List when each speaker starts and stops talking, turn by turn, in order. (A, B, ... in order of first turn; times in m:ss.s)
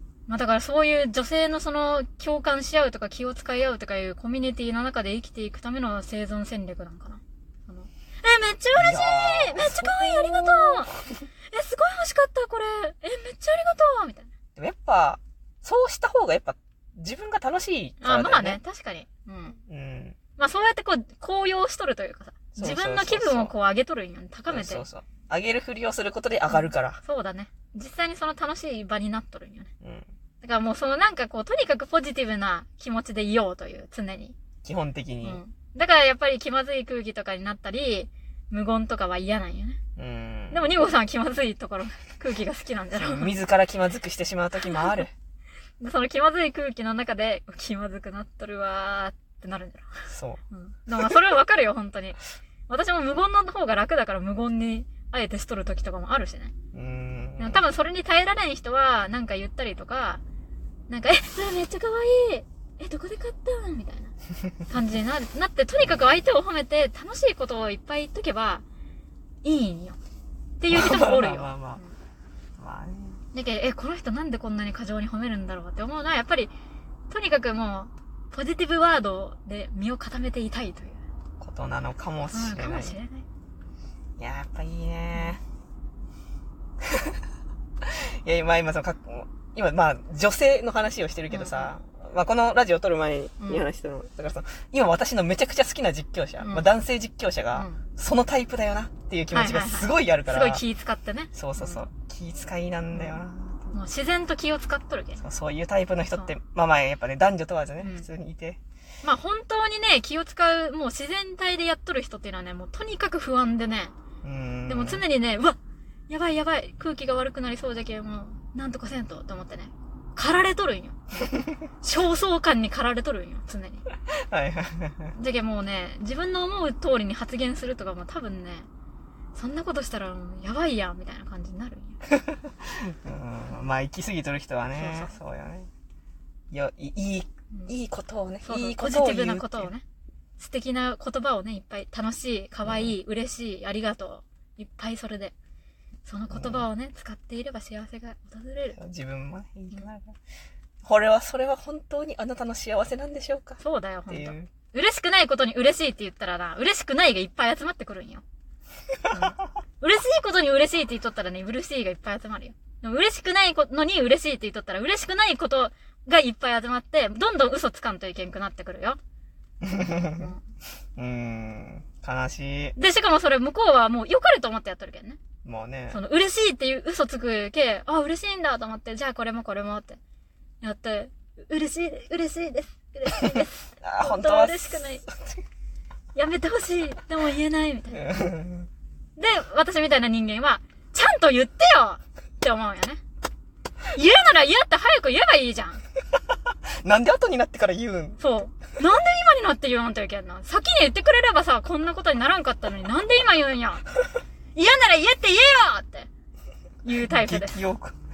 0:00.3-0:11.0 A
0:08.8-0:11.0 B
0:11.5-0:14.3 A
0:14.6-0:18.6 B
0:18.0-0:19.6 A
0:19.7-0:20.2 B
0:20.4-0:24.9 A
0:22.6-0:23.5 B
0:24.5-0:27.0 B
0:26.5-0:29.7 A
0:29.8-0:30.1 B
0:30.4-0:34.4 A
0:34.6-0:35.4 B
0:35.2-0:39.8 A
0:40.0-0:40.8 B
0:40.5-0:43.3 A
0:43.0-0:45.1 B
0:44.6-0:45.0 A
0:45.8-0:52.2 A
0:50.1-0:50.4 B
0:52.7-0:56.5 A
0:56.7-0:57.6 B
0:57.4-1:00.2 A
1:00.9-1:04.1 A
1:04.7-1:08.6 A
1:09.4-1:10.0 A
1:10.6-1:11.9 A
1:10.7-1:11.8 B
1:12.6-1:13.2 B
1:13.3-1:16.5 A
1:17.1-1:21.0 A
1:21.4-1:23.0 B
1:22.3-1:23.3 A
1:24.2-1:25.4 B
1:26.9-1:27.2 B
1:27.8-1:40.6 B
1:31.3-1:31.7 A
1:33.4-1:33.7 A
1:36.4-1:36.7 A
1:37.5-1:37.8 A
1:39.3-1:41.9 A
1:41.3-1:43.8 B
1:42.9-1:43.2 A
1:43.7-1:45.2 A
1:45.2-1:48.6 B
1:47.8-1:48.1 A
1:49.0-1:53.9 A
1:54.2-1:55.0 B
1:54.7-1:55.6 A
1:56.1-2:03.8 A
2:04.2-2:05.2 B
2:05.2-2:08.7 A
2:09.4-2:12.0 A
2:12.1-2:15.7 B
2:14.8-2:15.1 A
2:16.5-2:19.7 B
2:18.4-2:19.8 A
2:20.4-2:25.3 A
2:22.6-2:22.9 B
2:26.0-2:28.8 A
2:26.3-2:26.7 B
2:28.8-2:30.2 B
2:30.8-2:34.5 B
2:33.6-2:38.2 A
2:39.1-2:49.0 A
2:49.6-2:50.3 B
2:50.1-2:50.4 A
2:51.0-2:52.8 B
2:52.8-2:55.2 A
2:55.4-2:56.0 B
2:55.9-3:00.0 A
3:00.6-3:05.0 A
3:03.8-3:05.4 B
3:06.2-3:08.1 A
3:07.9-3:08.7 B
3:09.2-3:13.0 A
3:13.9-3:15.8 A
3:16.8-3:18.2 B
3:18.2-3:23.8 A
3:24.6-3:26.1 A
3:26.8-3:27.6 A
3:27.0-3:28.0 B